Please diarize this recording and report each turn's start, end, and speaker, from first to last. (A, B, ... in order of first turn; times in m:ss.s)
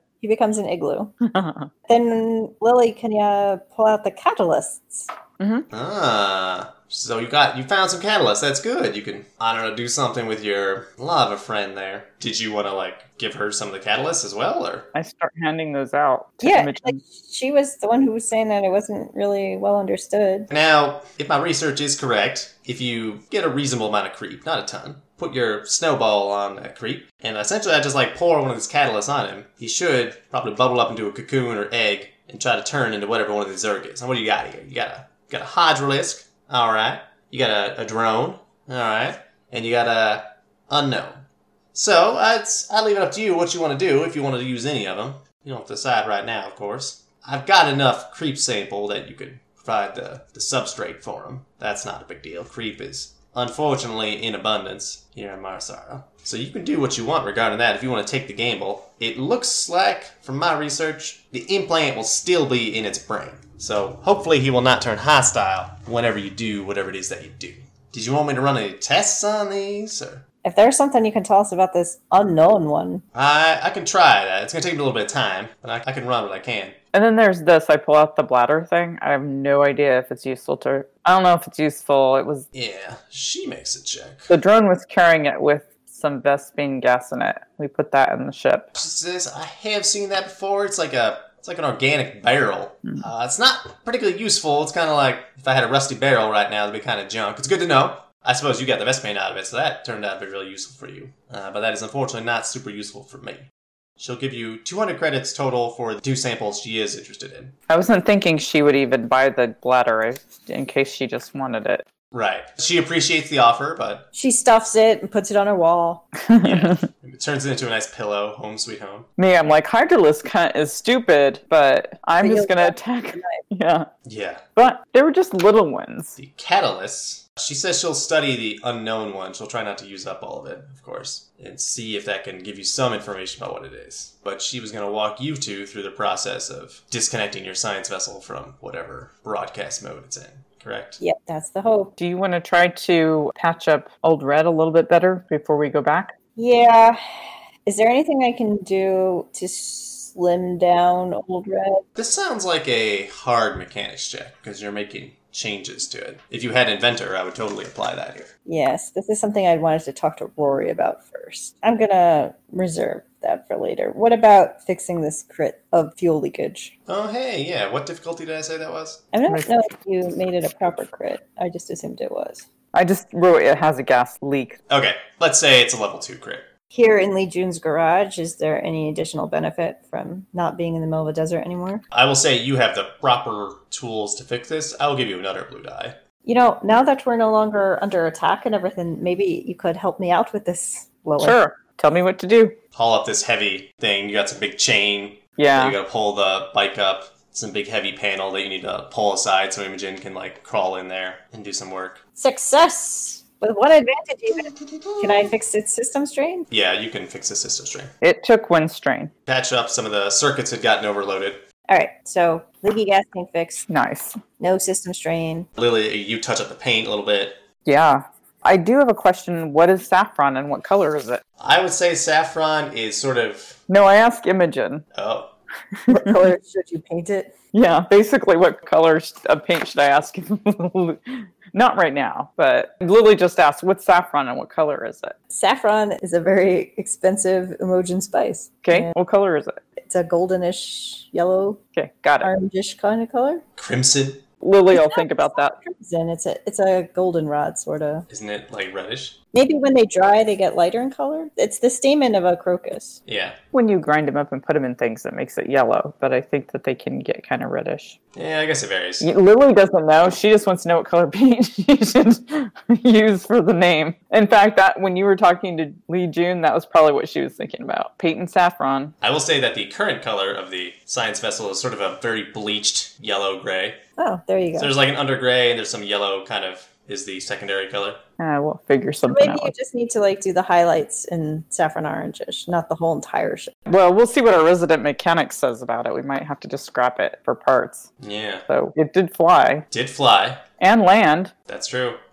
0:00.2-0:01.1 A
0:01.2-0:01.7 B
0:01.9-0:05.1 A
0:05.4-0:05.6 B
0:05.7-0:14.9 C
0:14.9-0:17.0 B
0:16.4-0:20.5 A
0:20.5-1:10.2 C
1:10.4-1:13.0 A
1:13.1-1:16.8 C
1:16.9-1:22.4 B
1:22.5-1:24.3 C
1:24.3-1:28.7 B
1:28.7-1:43.5 C
1:44.0-1:47.5 C
1:47.7-1:51.8 B
1:52.1-1:54.1 C
1:54.1-1:56.1 A
1:56.2-1:56.9 B
1:56.4-1:59.1 C
1:59.2-2:03.9 B
2:02.2-2:03.4 A
2:04.0-2:04.4 C
2:04.6-2:06.2 B
2:06.2-2:21.0 C
2:21.0-2:21.9 A
2:22.0-2:26.1 B
2:26.4-2:27.0 A
2:27.6-2:31.8 A
2:32.0-2:38.3 C
2:38.4-2:46.7 A
2:46.9-2:49.0 C
2:49.1-2:52.4 A
2:52.7-2:54.6 B
2:54.7-2:56.5 C
2:56.7-3:01.8 A
3:01.9-3:06.0 C
3:06.2-3:11.4 A
3:11.2-3:12.6 B
3:12.7-3:22.0 C
3:15.4-3:15.8 B
3:22.2-3:26.5 A
3:24.5-3:25.3 C
3:26.5-3:27.9 C
3:28.0-3:29.1 B
3:29.3-3:31.4 C
3:31.7-3:33.6 A
3:33.7-3:34.2 B
3:34.4-3:35.5 A
3:35.6-3:37.4 C
3:37.6-3:41.2 B
3:41.4-3:43.6 C
3:43.7-3:44.8 B
3:44.9-3:45.3 C
3:45.8-3:46.3 B
3:45.9-3:47.3 A
3:47.5-3:55.2 B
3:55.3-3:58.9 A
3:58.6-3:59.6 B
3:59.8-4:01.6 A
4:01.7-4:02.3 B
4:02.2-4:03.4 A
4:03.6-4:04.2 C
4:04.4-4:05.6 B
4:04.7-4:08.0 A
4:08.1-4:09.2 C
4:09.3-4:13.0 A
4:13.1-4:13.4 C
4:13.5-4:18.0 B
4:18.1-4:19.1 C
4:19.0-4:28.9 B
4:29.0-4:33.8 C
4:34.0-4:34.7 A
4:34.6-4:38.0 C
4:38.2-4:39.5 B
4:39.1-4:43.5 A
4:43.7-4:47.9 B
4:48.0-4:48.4 C
4:48.5-4:49.6 B
4:49.7-4:50.4 C
4:50.6-4:51.3 B
4:51.5-4:52.0 C